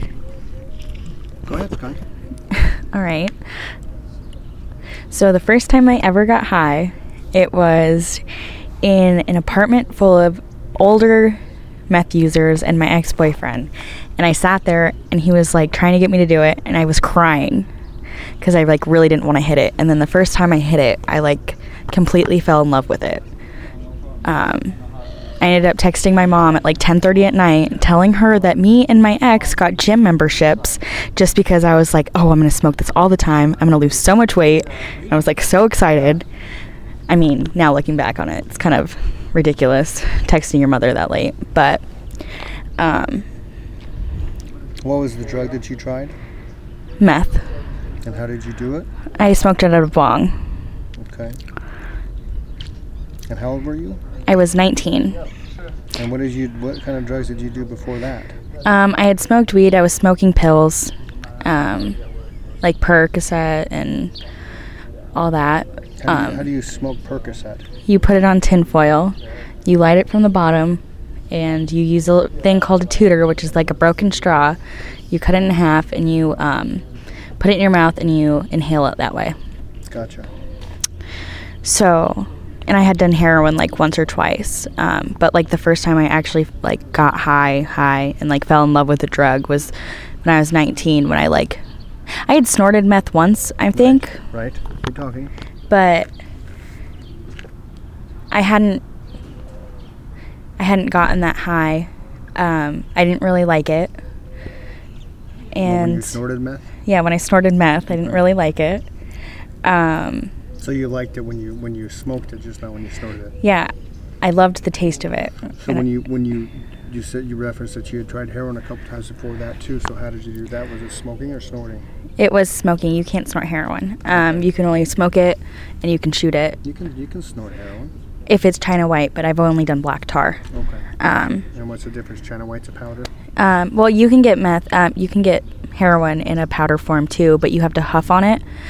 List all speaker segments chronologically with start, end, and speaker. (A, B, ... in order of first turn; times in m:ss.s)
0:01.5-0:02.0 A
0:02.5-0:03.3 B
0:05.1-0:08.2 B
0:08.8-0:17.7 B
0:18.4-0:23.2 B
0:24.2-0:24.8 B
0:25.4-0:36.2 B
0:37.1-0:41.8 B
0:42.8-0:43.2 B
0:44.8-0:46.1 A
0:47.0-0:47.5 B
0:48.0-0:48.9 A
0:49.2-0:50.3 B
0:51.0-0:51.4 A
0:53.3-0:54.0 A
0:54.2-0:55.2 B
0:55.9-0:58.4 A
0:58.6-1:02.0 B
1:02.6-1:04.1 B
1:05.1-1:06.5 B
1:06.0-1:07.6 A
1:07.8-1:14.6 B
1:15.1-1:16.8 B
1:17.4-1:19.4 B
1:19.9-1:20.3 A
1:21.6-1:34.2 B
1:33.7-1:35.3 A
1:35.7-1:36.1 B
1:38.3-1:38.8 B
1:40.6-1:43.9 B
1:45.5-1:46.2 B
1:45.6-1:46.7 A
1:46.8-1:48.9 B
1:49.6-1:50.3 B
1:50.6-1:53.3 A
1:53.4-1:55.8 B
1:55.6-2:01.8 A
2:02.2-2:06.6 B
2:04.1-2:04.4 A
2:06.6-2:07.9 A
2:08.3-2:10.4 B
2:10.5-2:10.9 A
2:11.0-2:11.4 B
2:11.4-2:13.1 A
2:13.4-2:18.4 B